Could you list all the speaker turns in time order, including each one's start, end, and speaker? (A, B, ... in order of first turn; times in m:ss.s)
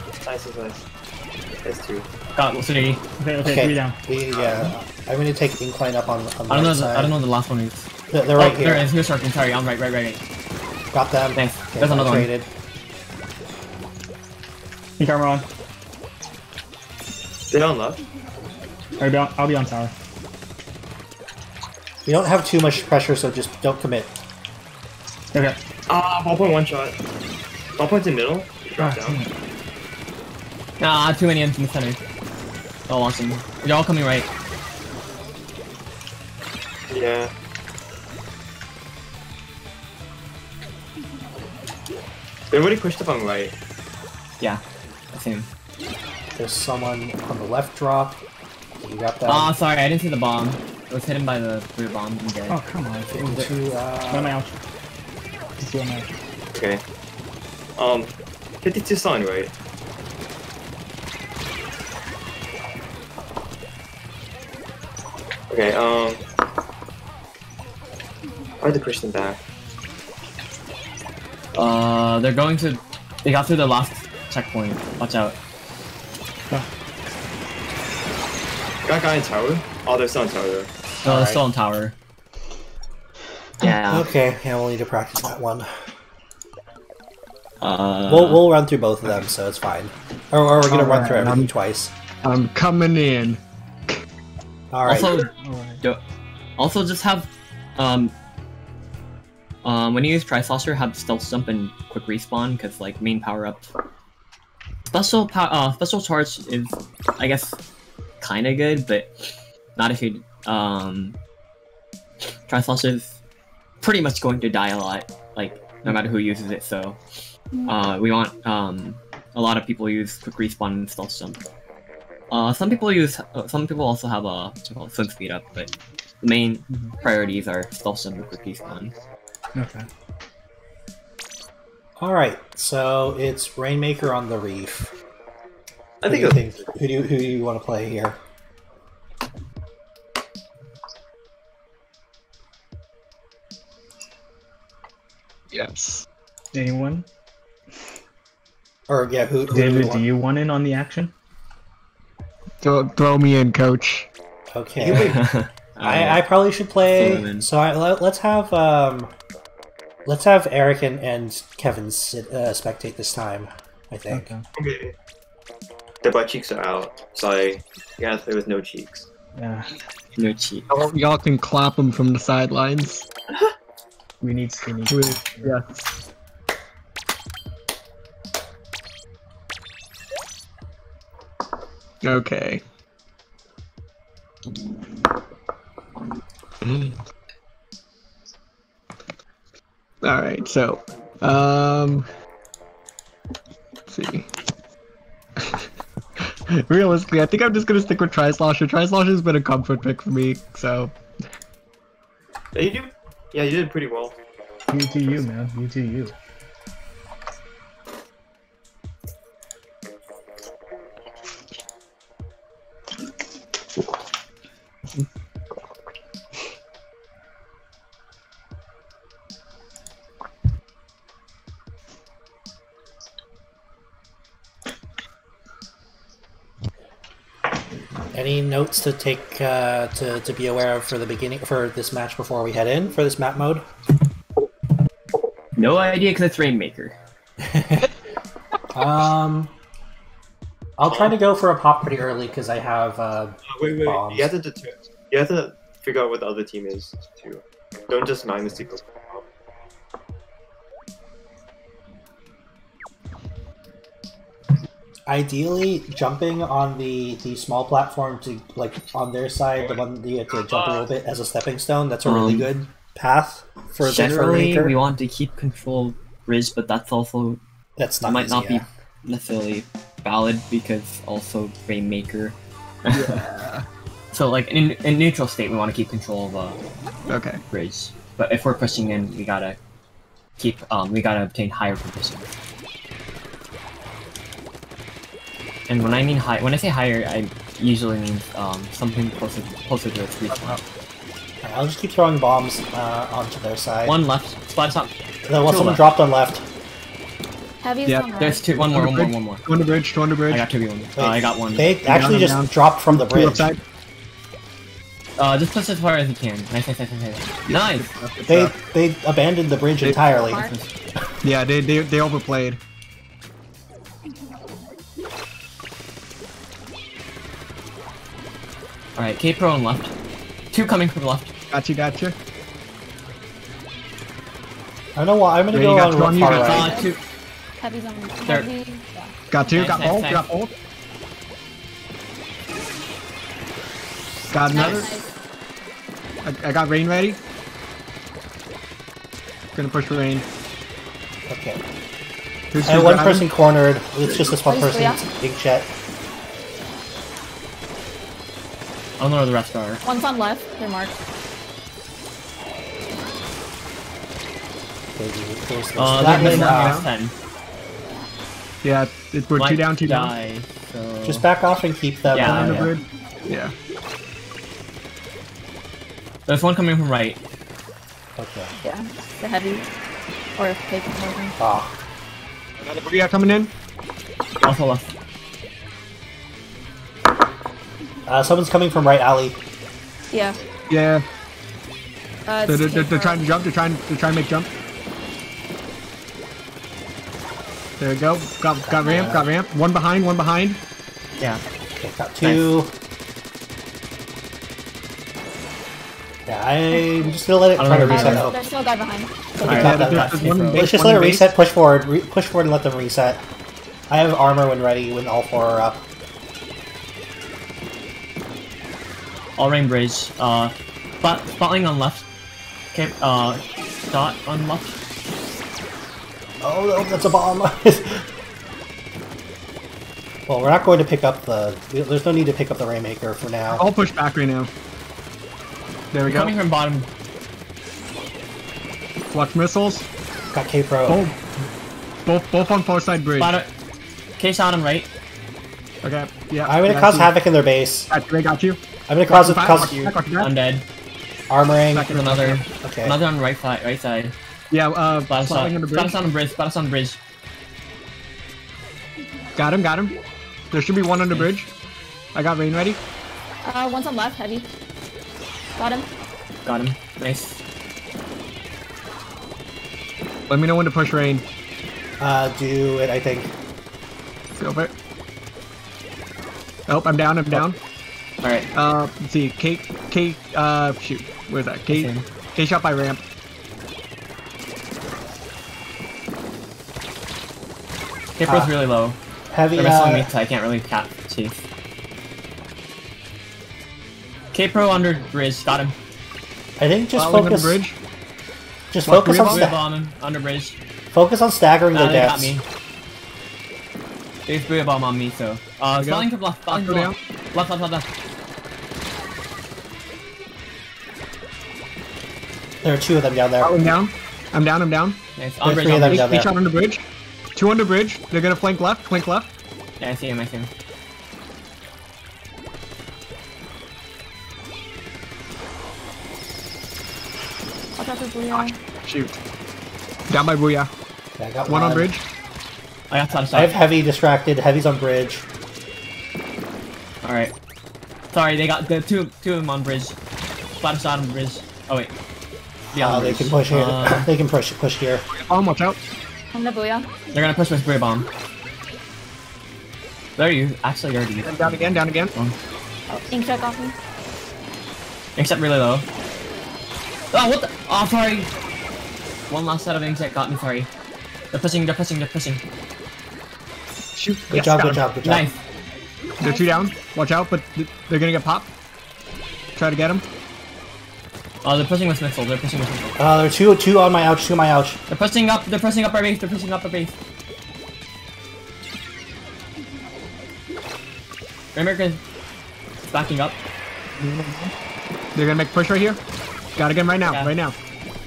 0:00.2-0:00.8 A
0:01.6-0:02.0 A
0:02.3-0:03.0 B
0:03.2-0:04.0 C
0:03.4-0:07.1 D
0:04.3-0:04.7 A
0:06.5-0:10.2 B
0:08.1-0:08.9 D
0:10.9-0:12.5 D
0:11.4-0:12.3 B
0:15.0-0:15.4 C
0:17.5-0:18.0 A
0:19.0-0:19.9 C
0:22.0-0:24.2 D
0:25.9-0:26.9 A
0:27.8-0:29.2 A
0:28.8-0:29.3 C
0:30.8-0:32.0 B
0:32.9-0:34.3 B
0:36.9-0:37.3 A
0:42.5-0:43.5 A
0:45.1-0:45.5 B
0:46.3-0:48.2 D
0:48.8-0:49.5 D
0:49.3-0:52.6 B
0:52.5-0:53.5 C
0:53.1-0:54.4 D
0:54.1-0:54.5 C
0:55.6-0:56.1 C
0:56.5-0:56.8 A
0:57.8-0:59.5 A
1:05.5-1:06.2 A
1:08.6-1:09.4 A
1:11.5-1:15.4 B
1:18.9-1:20.7 A
1:21.0-1:21.4 D
1:21.0-1:21.9 B
1:23.6-1:24.1 B
1:23.6-1:25.7 D
1:27.6-1:28.4 B
1:28.1-1:31.9 D
1:30.7-1:31.5 E
1:32.2-1:34.0 E
1:34.7-1:35.3 D
1:34.9-1:35.3 B
1:35.1-1:35.8 C
1:36.6-1:38.1 B
1:39.6-1:43.7 B
1:44.9-1:47.6 B
1:48.2-1:51.2 B
1:52.5-1:53.2 B
1:53.8-1:57.0 B
1:57.6-2:01.4 B
2:02.3-2:08.9 B
2:09.5-2:09.9 C
2:12.0-2:14.9 D
2:16.0-2:16.6 A
2:16.0-2:18.2 D
2:25.5-2:26.0 E
2:26.5-2:27.0 C
2:28.9-2:30.1 D
2:29.5-2:31.1 C
2:32.6-2:34.1 E
2:34.5-2:35.2 D
2:34.9-2:35.1 A
2:34.9-2:36.2 B
2:35.8-2:39.1 D
2:36.9-2:37.5 B
2:40.0-2:44.3 D
2:44.1-2:44.4 C
2:44.5-2:44.9 A
2:46.0-2:49.1 A
2:49.4-2:49.7 C
2:50.2-2:50.7 B
2:50.7-2:53.0 E
2:54.2-2:55.5 C
2:54.9-2:55.8 E
3:02.0-3:02.6 E
3:06.6-3:07.0 E
3:10.0-3:12.0 E
3:13.9-3:14.3 E
3:16.5-3:20.9 E
3:22.5-3:24.1 A
3:24.7-3:26.1 C
3:48.1-3:53.6 D
3:55.6-3:57.0 B
3:57.4-3:57.9 D
3:58.7-3:59.5 D
4:00.8-4:04.3 D
4:00.9-4:01.1 A
4:03.4-4:09.2 A
4:15.1-4:24.8 D
4:20.3-4:20.9 A
4:22.0-4:22.5 B
4:23.8-4:27.4 B
4:27.8-4:28.6 D
4:28.0-4:33.2 B
4:32.9-4:33.6 E
4:34.1-4:36.6 B
4:37.1-4:37.4 E
4:37.5-4:39.6 B
4:40.4-4:42.3 B
4:45.7-4:50.6 B
4:50.3-4:50.6 E
4:51.4-4:54.0 D
4:53.9-4:54.9 B
4:55.2-4:56.4 D
4:55.4-4:55.9 B
4:57.6-4:58.5 F
4:57.9-5:00.4 E
4:58.2-4:59.4 B
5:00.3-5:01.8 B
5:01.0-5:03.5 D
5:01.8-5:03.6 E
5:05.2-5:07.9 B
5:07.5-5:08.6 E
5:08.3-5:10.4 D
5:10.2-5:10.5 F
5:10.3-5:10.7 B
5:11.2-5:12.6 E
5:19.0-5:19.9 B
5:20.5-5:21.3 B
5:21.5-5:22.2 E
5:25.0-5:26.8 D
5:25.5-5:26.5 E
5:26.2-5:27.0 B
5:26.2-5:26.9 F
5:27.6-5:29.9 F
5:29.3-5:30.5 E
5:29.5-5:30.2 B
5:34.3-5:34.9 E
5:34.5-5:35.1 F
5:36.2-5:37.2 E
5:39.5-5:40.2 E
5:41.3-5:41.6 D
5:42.5-5:43.3 E
5:42.6-5:45.7 D
5:44.4-5:45.0 F
5:49.0-5:49.8 B
5:49.8-5:50.9 F
5:55.0-5:56.8 D
5:55.8-5:57.1 B
5:55.9-5:56.9 E
5:58.6-6:00.1 E
5:59.3-6:01.2 B
6:01.0-6:02.7 D
6:02.1-6:02.7 B
6:02.2-6:02.8 C
6:03.2-6:03.5 E
6:06.3-6:07.2 B
6:08.2-6:08.5 D
6:08.6-6:09.7 F
6:10.4-6:11.4 F
6:11.4-6:11.7 D
6:12.6-6:13.5 E
6:14.4-6:14.9 B
6:18.0-6:19.4 D
6:20.1-6:20.4 F
6:20.7-6:21.0 E
6:22.3-6:23.2 F
6:22.5-6:24.5 E
6:27.8-6:30.6 E
6:28.6-6:29.2 D
6:28.8-6:29.1 F
6:31.8-6:32.7 D
6:36.2-6:38.4 D
6:36.7-6:37.0 F
6:37.6-6:38.3 B
6:37.8-6:39.8 F
6:39.4-6:40.7 B
6:39.4-6:41.3 E
6:39.4-6:43.2 D
6:43.9-6:45.9 D
6:49.4-6:52.0 B
6:52.7-6:54.8 B
6:56.4-6:58.0 D
7:00.3-7:03.6 D
7:03.5-7:04.5 E
7:05.9-7:06.3 E
7:06.1-7:06.9 B
7:09.1-7:09.9 E
7:10.3-7:11.0 D
7:10.9-7:11.1 E
7:12.0-7:13.4 E
7:13.2-7:13.5 B
7:14.2-7:14.9 B
7:15.8-7:17.1 E
7:16.4-7:17.9 D
7:17.9-7:20.3 E
7:18.9-7:19.9 D
7:20.2-7:20.6 B
7:21.3-7:23.0 D
7:21.7-7:22.4 E
7:21.8-7:24.1 B
7:24.5-7:25.9 E
7:25.1-7:27.0 B
7:29.4-7:30.0 E
7:30.5-7:31.5 E
7:32.1-7:32.8 E
7:33.4-7:34.5 F
7:35.6-7:35.9 F
7:36.4-7:37.4 B
7:40.3-7:41.2 E
7:42.0-7:43.3 D
7:44.4-7:44.7 E
7:46.7-7:47.6 E
7:48.2-7:48.5 B
7:48.5-7:53.0 E
7:51.7-7:52.0 B
7:58.2-7:59.0 B
7:58.2-7:58.5 D
7:59.3-8:00.1 D
7:59.5-8:01.4 B
8:04.3-8:05.7 B
8:06.6-8:07.6 D
8:06.9-8:07.8 E
8:08.7-8:09.6 D
8:08.9-8:09.5 E
8:08.9-8:10.6 B
8:10.9-8:12.4 D
8:11.7-8:12.4 B
8:14.3-8:17.9 B
8:15.8-8:17.0 E
8:22.6-8:23.7 D
8:23.4-8:26.8 E
8:25.2-8:26.2 B
8:25.4-8:26.3 D
8:27.3-8:29.3 E
8:29.8-8:30.5 B
8:37.8-8:38.6 F
8:38.3-8:39.2 E
8:40.1-8:40.7 E
8:41.1-8:41.9 D
8:41.5-8:42.0 E
8:42.9-8:43.5 B
8:43.3-8:45.2 D
8:47.0-8:47.3 B
8:48.1-8:50.0 B
8:50.6-8:51.9 B
8:52.7-8:54.1 B
8:52.7-8:55.0 D
8:55.1-8:55.8 E
8:56.3-8:56.9 F
8:57.1-8:58.1 B
9:00.2-9:02.3 B
9:01.2-9:02.1 E
9:03.1-9:03.7 F
9:05.2-9:05.9 B
9:07.1-9:08.3 B
9:09.3-9:10.7 B
9:11.3-9:12.4 B
9:14.0-9:14.8 E
9:14.3-9:15.3 D
9:14.3-9:15.4 B
9:16.2-9:18.5 E
9:16.2-9:16.7 F
9:19.6-9:20.0 E
9:21.4-9:23.0 B
9:23.0-9:24.8 D
9:24.9-9:26.9 B
9:31.5-9:32.0 B
9:32.9-9:33.4 B
9:34.0-9:34.4 C
9:35.1-9:36.0 E
9:36.6-9:37.6 E
9:37.1-9:37.3 B